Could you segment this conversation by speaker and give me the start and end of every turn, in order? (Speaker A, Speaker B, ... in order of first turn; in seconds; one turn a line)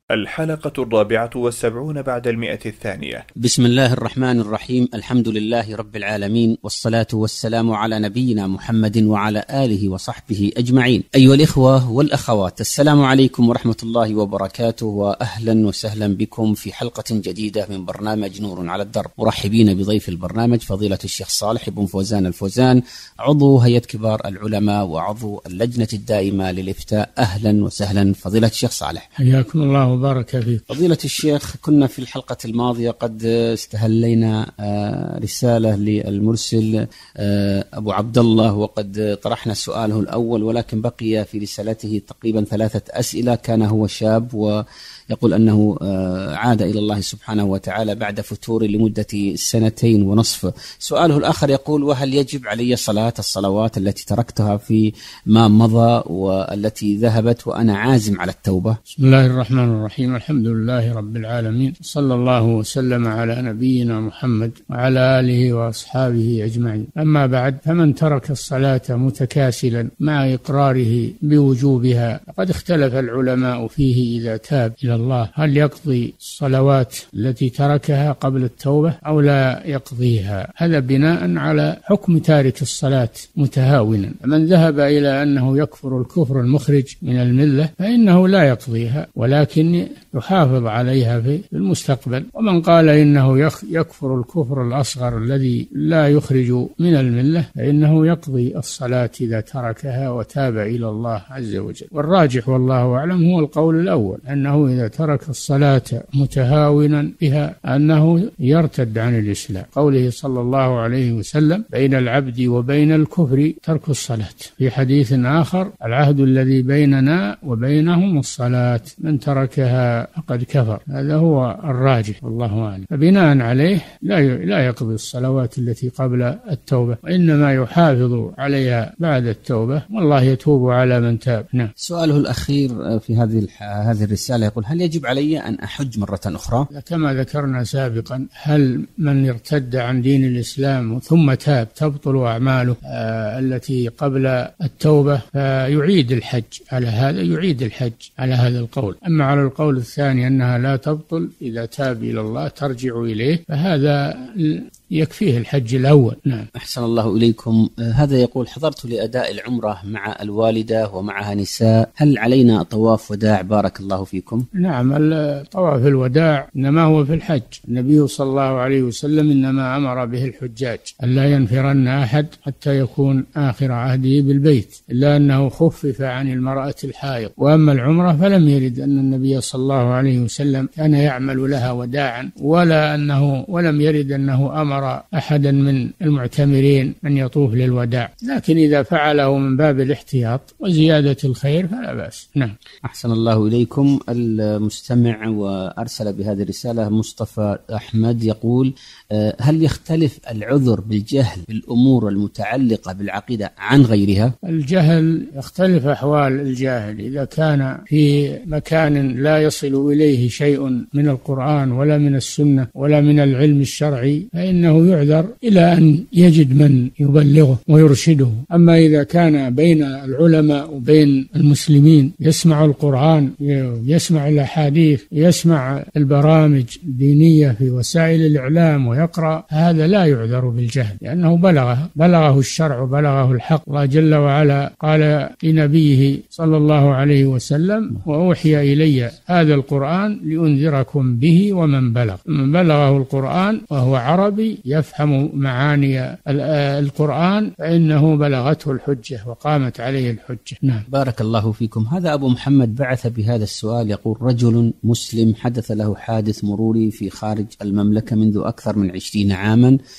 Speaker A: 0.1-3.2
Speaker B: 3.4-29.1
Speaker C: 29.2-30.7
Speaker B: 30.7-58.8
Speaker C: 59.0-131.7
Speaker B: 131.8-136.7
Speaker C: 136.7-156.5
Speaker B: 156.6-164.4
Speaker C: 164.6-192.5
Speaker B: 192.8-204.3
Speaker C: 204.4-250.8
Speaker B: 250.9-259.8